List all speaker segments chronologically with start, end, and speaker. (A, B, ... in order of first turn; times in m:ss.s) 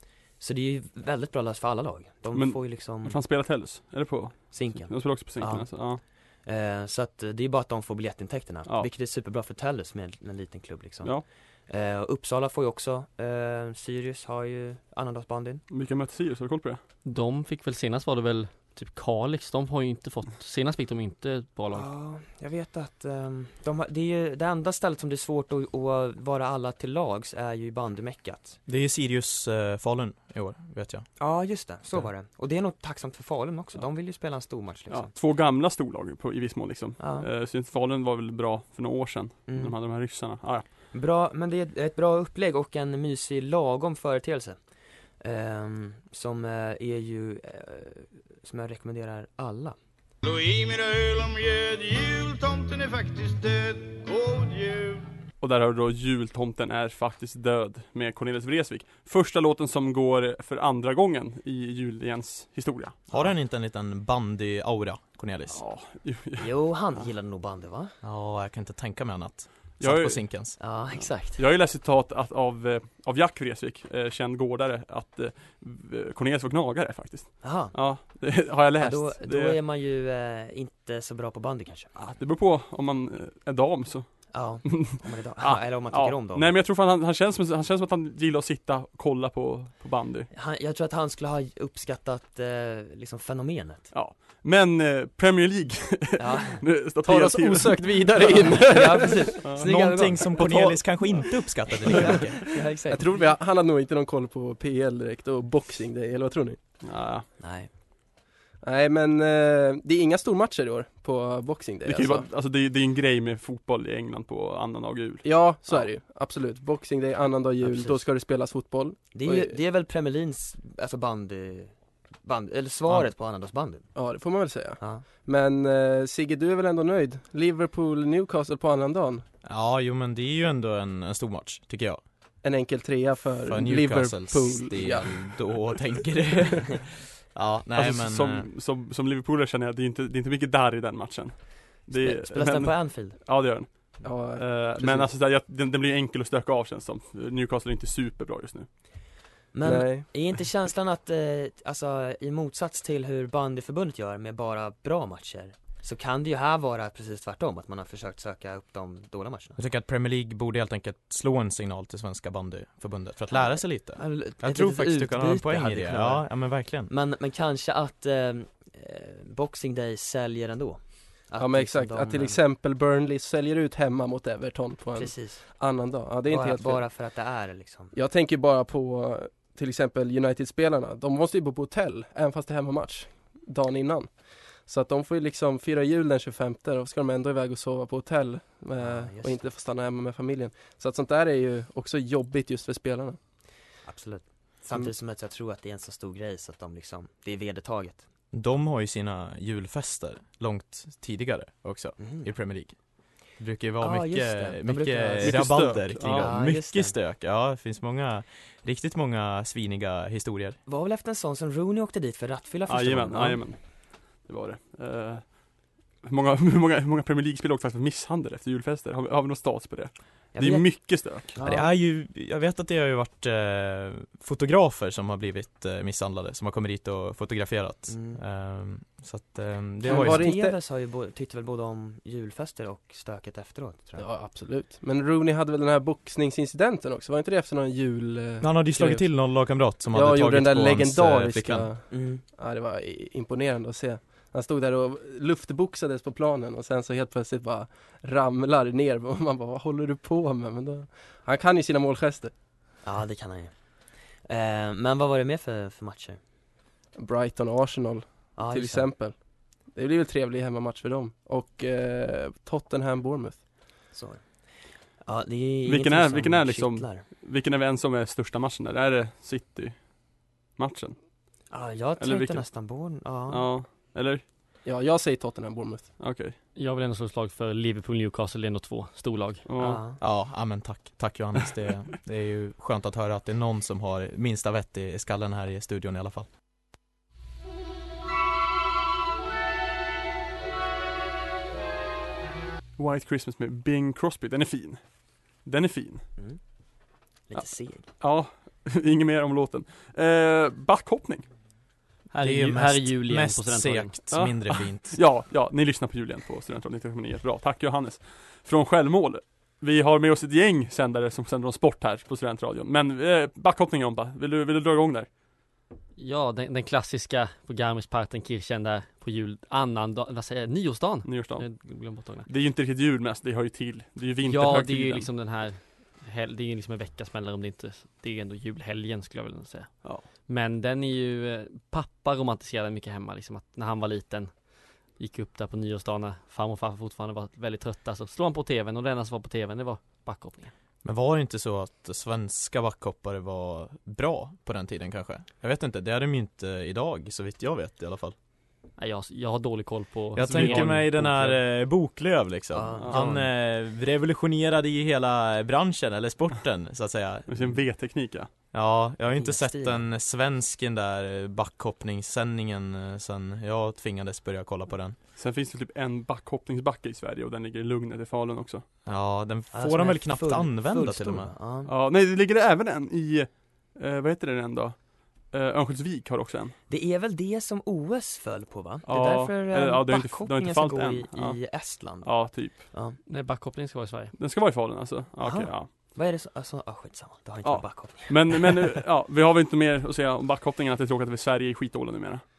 0:00.4-0:03.2 A
0:02.3-0:06.0 B
0:04.5-0:05.9 A
0:06.4-0:15.6 A
0:15.7-0:16.8 B
0:17.0-0:21.9 C
0:21.7-0:28.6 A
0:28.7-0:31.1 D
0:31.2-0:35.1 A
0:34.9-0:40.6 B
0:37.0-0:37.3 A
0:39.5-0:39.8 A
0:40.9-0:44.6 A
0:45.2-0:49.8 A
0:50.2-0:55.1 E
0:55.4-1:03.0 B
1:03.1-1:05.6 D
1:05.5-1:07.0 B
1:06.4-1:08.0 A
1:08.0-1:10.6 D
1:09.8-1:19.6 B
1:10.6-1:11.4 A
1:17.4-1:17.8 A
1:18.8-1:21.9 A
1:22.0-1:30.3 B
1:24.3-1:26.5 A
1:30.3-1:33.9 A
1:33.9-1:38.5 B
1:36.2-1:36.6 A
1:37.0-1:39.4 F
1:38.4-1:40.8 A
1:39.6-1:42.5 D
1:41.9-1:43.2 A
1:42.9-1:46.6 F
1:46.8-1:47.3 B
1:47.4-1:47.7 A
1:48.6-1:52.3 F
1:51.8-1:55.3 B
1:55.2-1:59.5 F
1:57.6-1:58.0 A
1:59.1-2:01.7 A
2:02.2-2:03.9 A
2:04.0-2:09.2 F
2:04.8-2:05.1 A
2:09.4-2:12.0 D
2:12.4-2:15.4 F
2:13.5-2:18.5 D
2:17.8-2:28.7 B
2:22.0-2:23.2 A
2:24.0-2:25.1 F
2:29.5-2:39.6 A
2:29.6-2:30.1 F
2:39.6-2:46.9 D
2:43.3-2:46.3 A
2:46.9-2:52.4 A
2:51.4-2:56.8 F
2:55.0-2:55.5 A
2:56.3-2:57.9 A
2:57.9-3:04.1 F
3:04.6-3:13.2 F
3:08.8-3:09.5 A
3:13.8-3:18.0 A
3:18.3-3:22.8 D
3:22.0-3:22.3 A
3:23.4-3:30.6 D
3:23.8-3:27.0 A
3:25.2-3:26.3 B
3:30.7-3:33.4 A
3:32.7-3:35.4 B
3:36.0-3:41.4 B
3:40.4-3:41.7 A
3:41.4-3:50.3 D
3:47.9-3:48.2 A
3:49.8-3:54.1 A
3:49.9-3:50.6 F
3:54.0-3:59.1 F
3:58.4-4:01.7 D
3:59.9-4:12.3 F
4:01.9-4:02.2 A
4:12.8-4:13.5 A
4:14.3-4:16.2 A
4:17.0-4:19.2 F
4:18.4-4:18.9 A
4:19.7-4:23.4 F
4:23.9-4:24.2 A
4:25.0-4:27.0 A
4:25.6-4:29.9 B
4:30.6-4:31.0 B
4:31.5-4:33.5 A
4:32.0-4:32.5 B
4:33.3-4:34.2 B
4:34.6-4:35.9 F
4:36.0-4:36.4 B
4:36.6-4:39.4 C
4:39.5-4:39.8 B
4:39.6-4:40.0 A
4:40.0-4:46.3 D
4:52.8-4:54.9 B
4:55.4-4:56.0 B
4:57.3-4:57.9 A
4:58.0-5:01.3 B
5:02.1-5:04.0 C
5:02.2-5:05.0 D
5:04.1-5:15.1 B
5:16.0-5:22.3 C
5:21.0-5:21.5 B
5:22.3-5:25.1 B
5:24.2-5:34.3 C
5:35.0-5:40.5 C
5:40.8-5:48.2 D
5:48.8-5:51.4 C
5:50.2-5:57.6 D
5:50.2-5:50.8 B
5:52.5-5:53.2 A
5:52.8-5:53.1 B
5:57.3-5:58.3 B
5:58.5-6:05.0 D
5:59.2-5:59.8 A
6:05.2-6:08.6 B
6:08.9-6:11.3 D
6:09.5-6:11.7 A
6:11.7-6:16.5 B
6:16.7-6:23.0 A
6:18.9-6:22.7 B
6:23.1-6:24.1 C
6:24.2-6:25.7 B
6:25.2-6:28.6 A
6:27.4-6:32.2 B